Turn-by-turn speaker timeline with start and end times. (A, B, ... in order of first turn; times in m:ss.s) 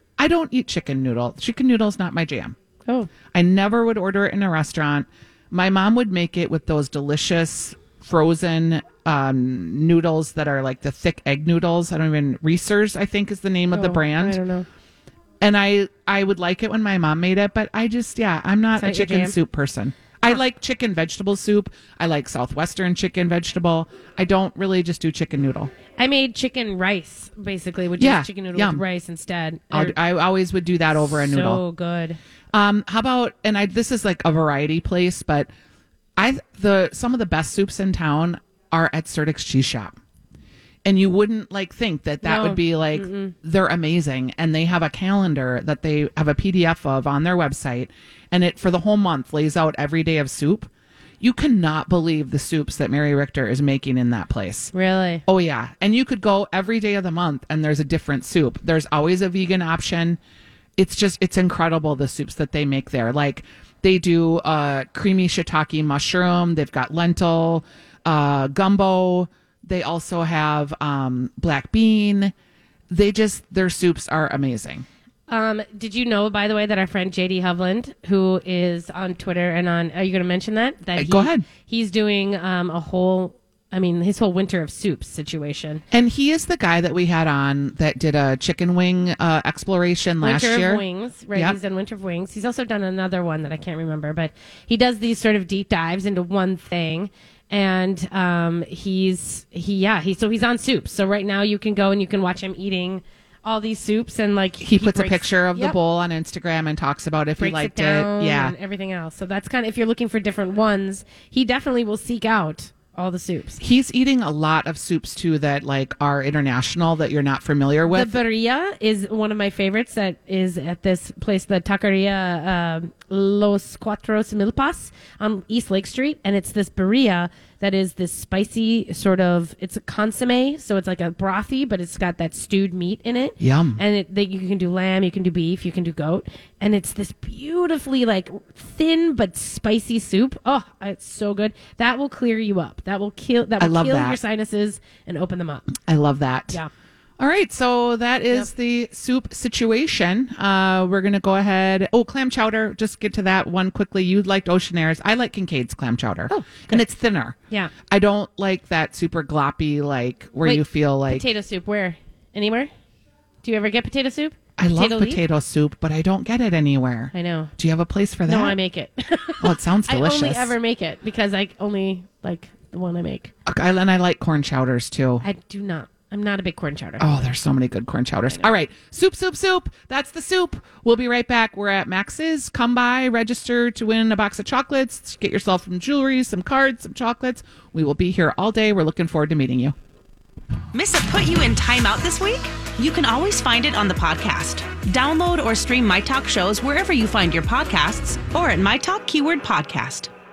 0:00.2-0:02.6 A
0:03.3-0:14.4 A
0:13.7-0:14.7 B
0:15.4-0:25.7 A
0:18.8-0:19.4 B
0:26.0-0:30.0 B
0:28.0-0:28.8 A
0:29.7-0:31.6 A
0:31.0-0:32.2 B
0:32.5-0:35.5 A
0:36.2-0:40.0 A
0:40.8-0:50.7 A
0:42.2-0:43.4 B
0:51.2-0:54.7 A
0:54.7-0:55.2 B
0:55.3-1:00.2 A
1:00.8-1:12.3 A
1:12.9-1:14.9 A
1:15.3-1:25.8 B
1:21.0-1:21.4 A
1:25.9-1:30.8 A
1:30.2-1:45.8 B
1:44.6-1:48.6 A
1:47.4-1:53.6 B
1:53.6-1:58.2 A
1:57.9-2:25.8 B
2:13.4-2:13.8 A
2:23.6-2:24.2 A
2:25.9-2:26.6 A
2:27.2-2:37.4 A
2:36.3-2:36.9 B
2:37.9-2:41.3 A
2:40.4-2:42.7 B
2:43.4-2:45.2 B
2:44.6-2:48.6 A
2:47.1-2:47.5 B
2:48.3-2:53.3 B
2:49.4-2:50.5 A
2:53.5-2:55.2 A
2:55.2-2:57.3 B
2:57.0-3:09.8 A
3:10.7-3:20.1 C